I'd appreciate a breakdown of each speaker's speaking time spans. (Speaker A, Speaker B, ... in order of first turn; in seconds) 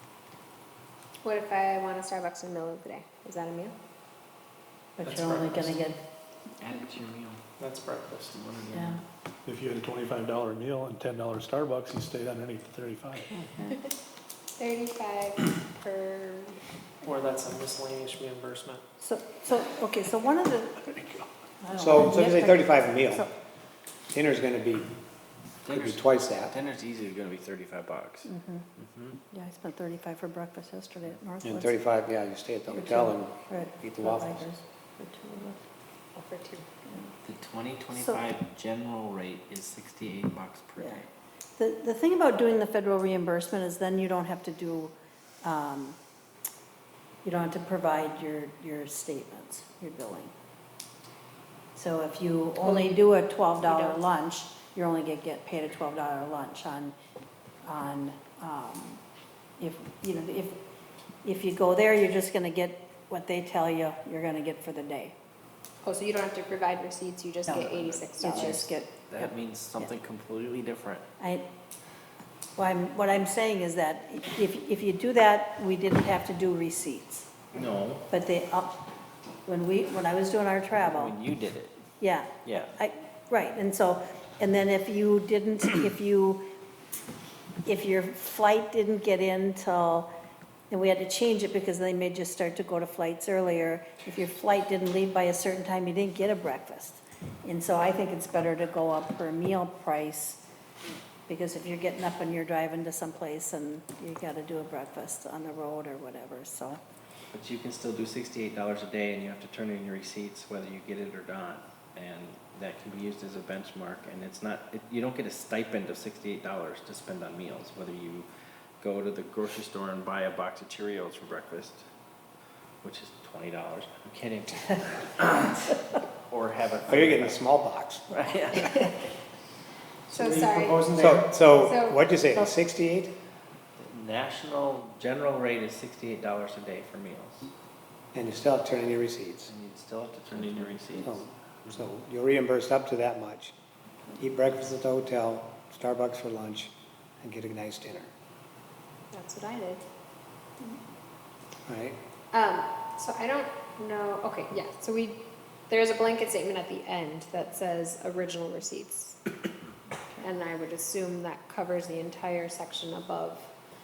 Speaker A: 1.2-3.8, 14.6-16.6, 36.1-36.7, 52.6-53.0, 53.6-54.0, 65.8-68.7, 130.1-130.8, 131.5-132.0, 149.1-149.9, 152.3-159.2, 160.2-163.5
Speaker B: 5.0-6.0, 8.7-9.0, 13.3-13.8, 19.0-20.9, 21.6-23.3, 28.3-28.6, 29.3-31.7, 32.7-35.6, 40.8-41.0, 41.6-46.0, 47.2-50.3, 51.8-57.0, 57.6-59.0, 59.6-60.6, 61.2-65.2, 67.5-69.9, 71.2-71.5, 72.6-77.3, 78.1-78.8, 79.5-81.2, 82.0-86.4, 87.7-90.1, 90.7-100.4, 101.3-106.8
Speaker C: 5.0-5.8, 7.6-8.4, 17.0-18.8, 130.1-131.3
Speaker D: 6.6-7.4, 8.3-9.0, 25.6-29.2, 37.2-41.0, 67.7-68.1, 69.1-71.0, 77.5-78.1, 80.8-81.8, 82.4-82.7, 107.3-118.3, 118.8-121.8, 122.8-125.6, 126.3-127.4, 128.1-128.9, 133.8-137.5, 139.5-141.3
Speaker E: 9.5-13.3, 20.9-21.2
Speaker F: 21.8-23.3, 24.1-24.9, 25.7-26.5, 31.5-34.5, 126.9-128.2, 131.0-133.1, 138.1-139.5, 141.0-143.5, 144.2-148.1, 151.7-152.0